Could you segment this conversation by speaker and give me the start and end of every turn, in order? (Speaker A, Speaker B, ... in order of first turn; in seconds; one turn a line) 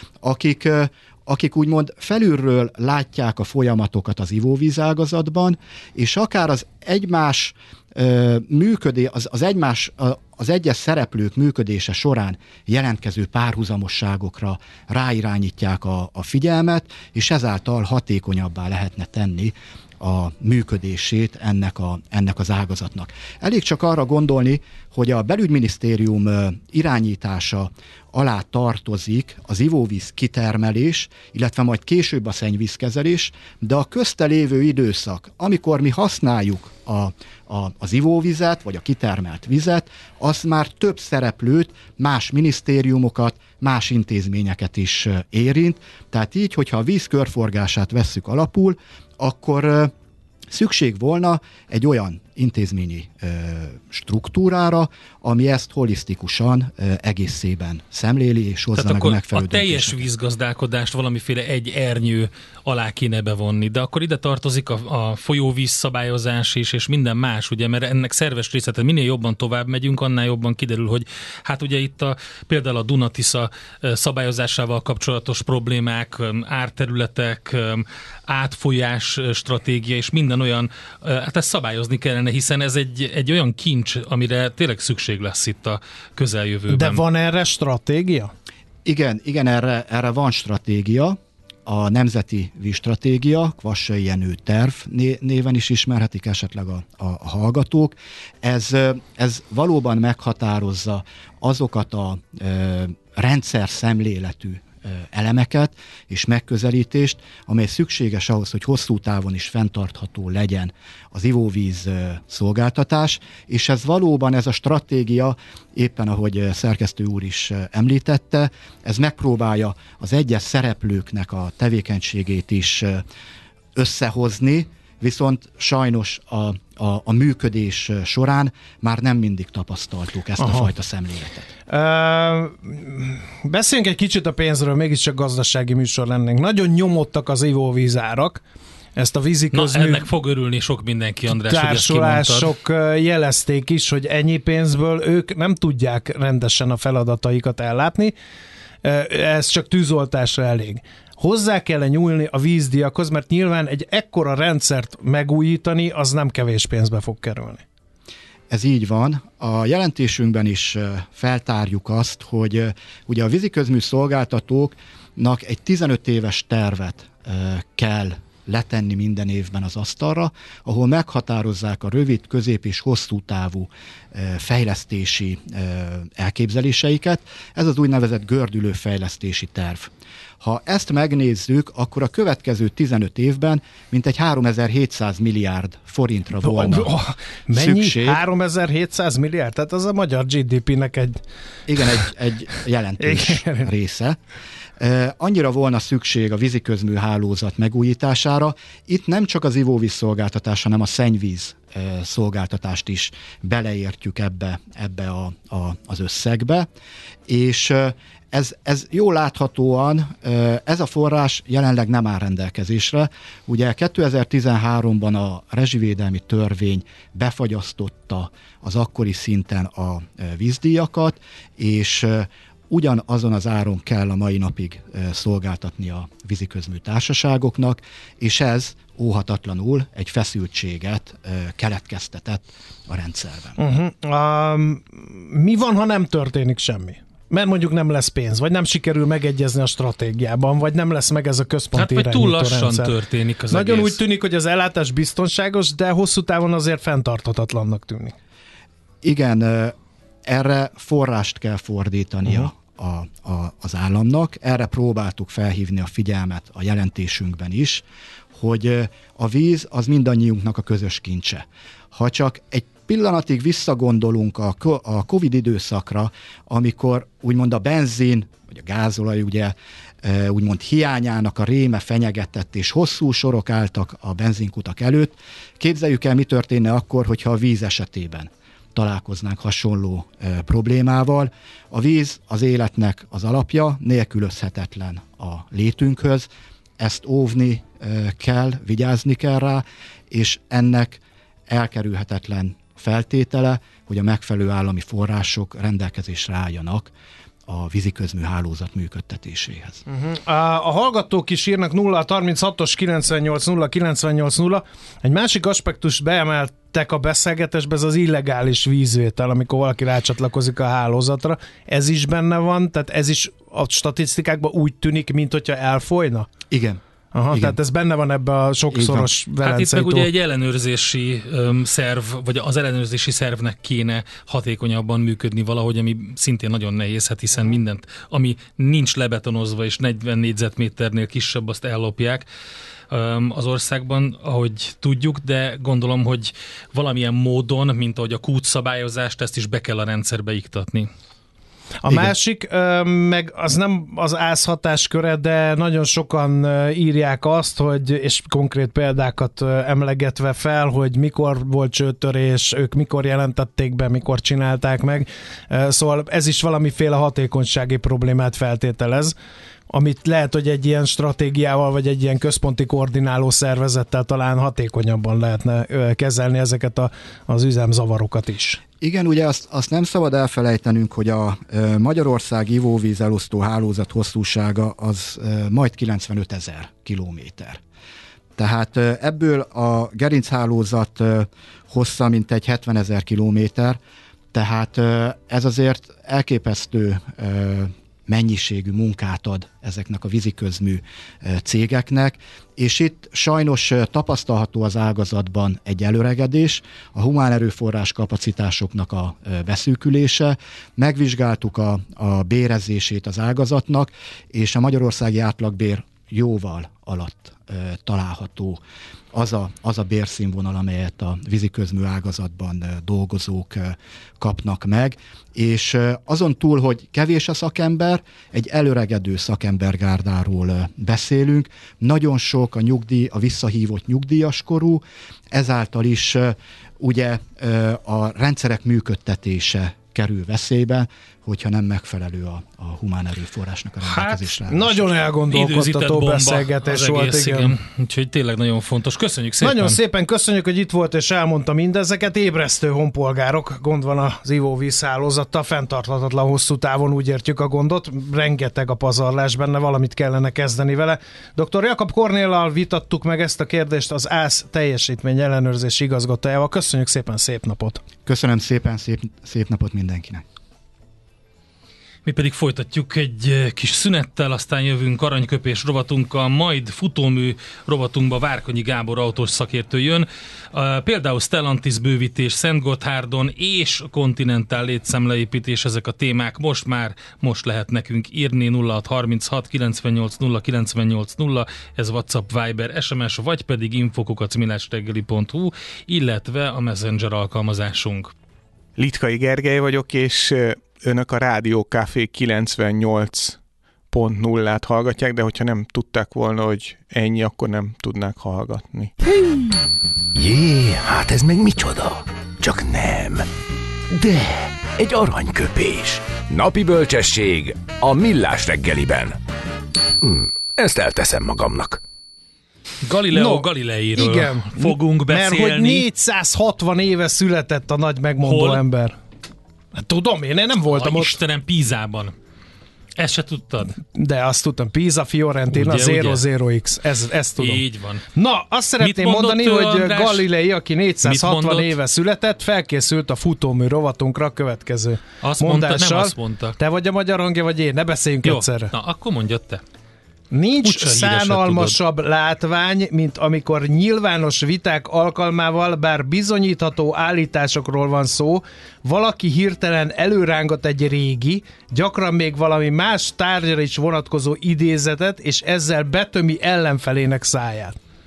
Speaker A: 0.2-49.9
Speaker A: 50.5-60.0
Speaker B: 58.8-87.0
Speaker C: 86.7-88.3
Speaker A: 88.8-123.0
Speaker A: 123.7-131.5
Speaker C: 130.4-130.7
Speaker C: 131.7-138.4
Speaker C: 138.9-140.1
Speaker B: 139.5-142.5
Speaker C: 141.3-148.1
Speaker C: 148.8-157.6
Speaker A: 158.5-186.9
Speaker C: 186.4-191.2
Speaker A: 187.5-188.2
Speaker A: 191.7-194.2
Speaker C: 193.0-193.7
Speaker A: 194.8-206.7
Speaker A: 207.3-233.6
Speaker C: 233.6-242.9
Speaker B: 241.7-244.0
Speaker C: 243.5-248.1
Speaker A: 249.0-257.8
Speaker A: 258.3-286.3
Speaker A: 286.8-296.9
Speaker A: 297.5-299.8
Speaker C: 299.9-316.3
Speaker A: 316.5-317.6
Speaker C: 317.1-320.1
Speaker A: 318.7-319.1
Speaker B: 319.4-332.2
Speaker B: 332.9-340.9
Speaker C: 341.8-359.1
Speaker A: 341.9-342.1
Speaker C: 359.7-368.6
Speaker A: 368.8-377.6
Speaker A: 378.4-383.8
Speaker A: 384.3-408.6
Speaker A: 409.1-434.9
Speaker B: 433.8-434.3
Speaker C: 434.5-437.6
Speaker B: 435.3-439.8
Speaker C: 439.4-457.8
Speaker A: 458.0-460.2
Speaker B: 462.1-488.1
Speaker D: 488.8-498.9
Speaker E: 500.1-503.3
Speaker E: 503.9-509.2
Speaker E: 510.0-511.8
Speaker B: 512.8-515.9
Speaker C: 513.1-519.0
Speaker B: 518.2-518.6
Speaker C: 519.7-521.2
Speaker B: 520.7-522.1
Speaker B: 523.0-523.8
Speaker C: 523.8-538.7
Speaker B: 525.5-526.2
Speaker B: 527.4-528.0
Speaker B: 528.8-530.2
Speaker B: 531.0-531.8
Speaker B: 535.2-536.6
Speaker B: 538.2-539.6
Speaker C: 540.3-557.8
Speaker B: 540.6-541.8